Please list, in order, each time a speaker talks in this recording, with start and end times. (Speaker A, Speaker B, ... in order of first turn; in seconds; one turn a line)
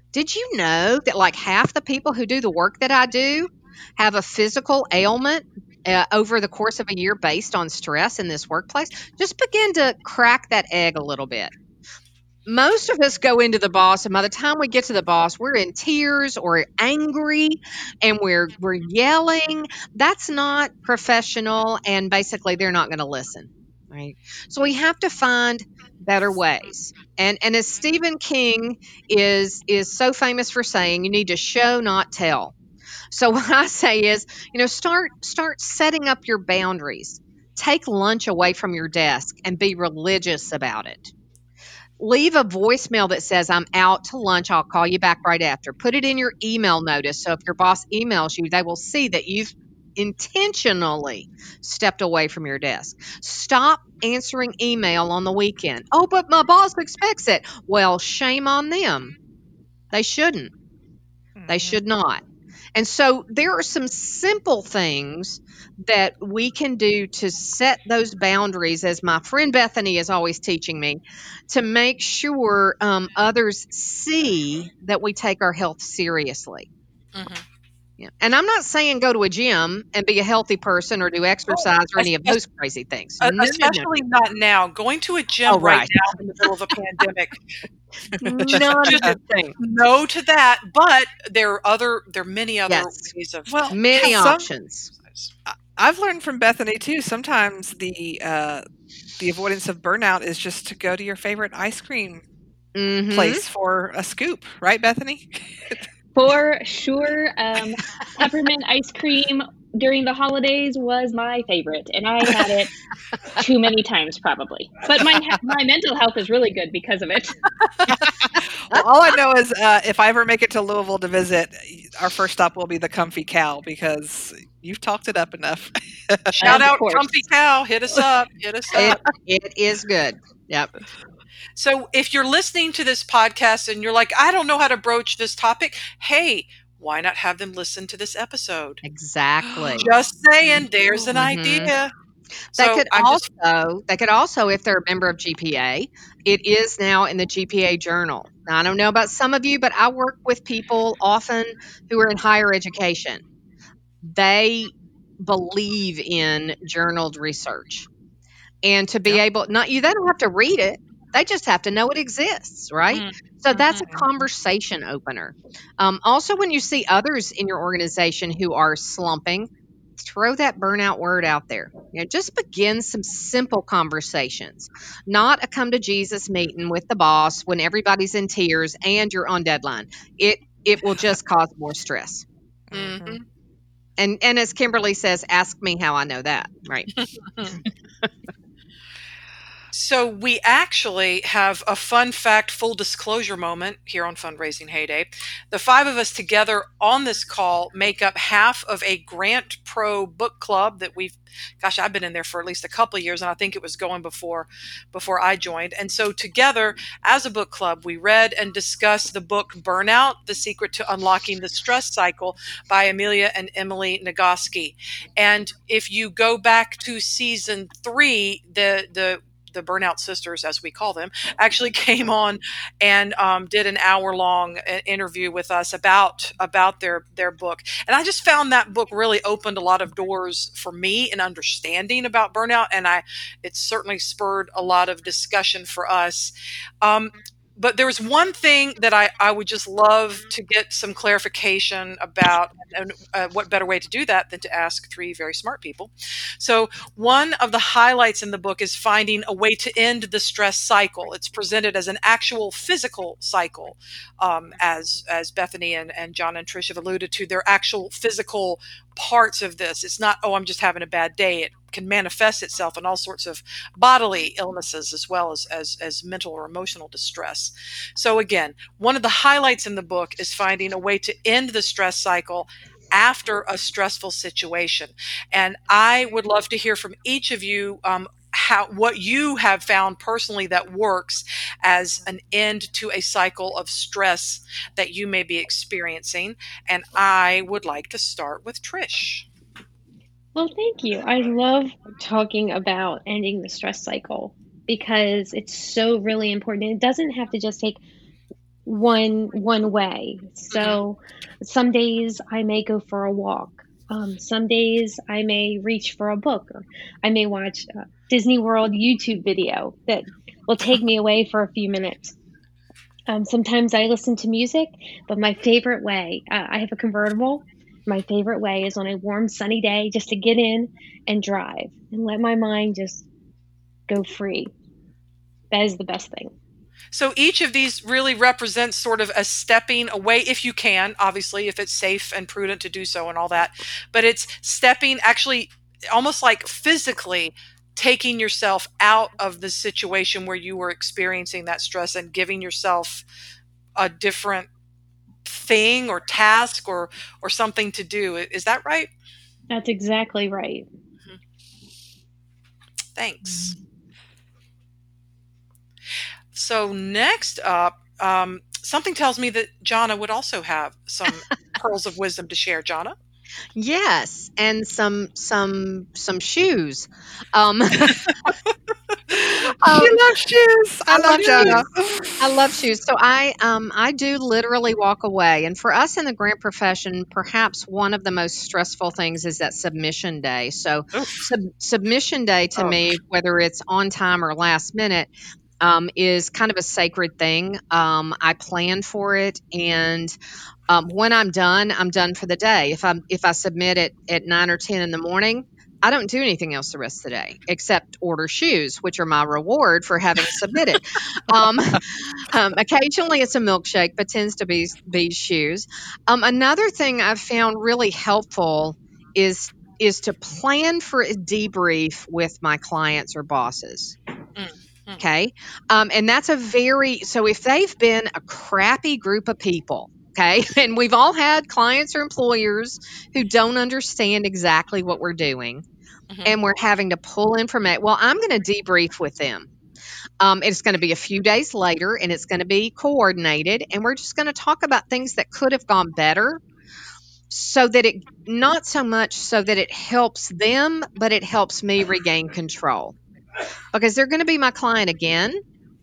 Speaker A: 0.1-11.5
Speaker A: 12.4-32.5
Speaker A: 33.1-41.1
Speaker A: 42.0-59.1
Speaker A: 59.9-60.5
Speaker B: 61.4-61.8
Speaker A: 61.5-62.2
Speaker A: 62.7-76.7
Speaker C: 77.1-77.4
Speaker A: 78.0-83.9
Speaker C: 81.5-82.4
Speaker C: 83.2-87.4
Speaker A: 85.5-85.9
Speaker A: 88.2-89.6
Speaker B: 88.2-89.1
Speaker C: 88.5-94.3
Speaker A: 92.7-93.1
Speaker B: 93.5-94.4
Speaker A: 93.7-94.9
Speaker C: 94.9-95.3
Speaker B: 95.5-98.6
Speaker B: 99.2-102.2
Speaker A: 102.7-103.4
Speaker B: 103.1-105.9
Speaker D: 106.1-112.7
Speaker D: 113.3-117.4
Speaker B: 118.2-126.6
Speaker C: 126.3-129.0
Speaker D: 126.4-127.2
Speaker A: 128.7-130.7
Speaker C: 131.6-138.8
Speaker A: 138.8-139.9
Speaker C: 139.8-141.9
Speaker A: 141.1-141.7
Speaker A: 142.5-153.2
Speaker C: 142.6-143.2
Speaker A: 154.0-157.9
Speaker A: 158.6-182.2
Speaker C: 162.9-164.0
Speaker B: 182.7-183.2
Speaker C: 182.7-183.2
Speaker A: 184.0-186.9
Speaker C: 187.0-187.5
Speaker C: 189.7-289.3
Speaker E: 290.3-297.8
Speaker E: 298.6-312.1
Speaker C: 300.5-300.8
Speaker E: 313.1-323.0
Speaker E: 323.9-324.5
Speaker E: 325.5-326.3
Speaker C: 326.9-343.0
Speaker C: 343.8-344.5
Speaker C: 345.2-348.9
Speaker E: 349.5-350.7
Speaker C: 352.9-353.5
Speaker C: 356.3-362.9
Speaker A: 363.6-368.1
Speaker B: 369.1-372.2
Speaker A: 369.4-370.0
Speaker A: 370.9-371.7
Speaker C: 371.0-371.6
Speaker A: 372.2-390.1
Speaker C: 380.9-381.3
Speaker A: 390.7-413.9
Speaker C: 414.4-415.0
Speaker A: 415.0-425.6
Speaker C: 426.1-426.4
Speaker A: 426.2-429.5
Speaker A: 430.2-436.4
Speaker A: 437.3-442.9
Speaker A: 443.7-445.4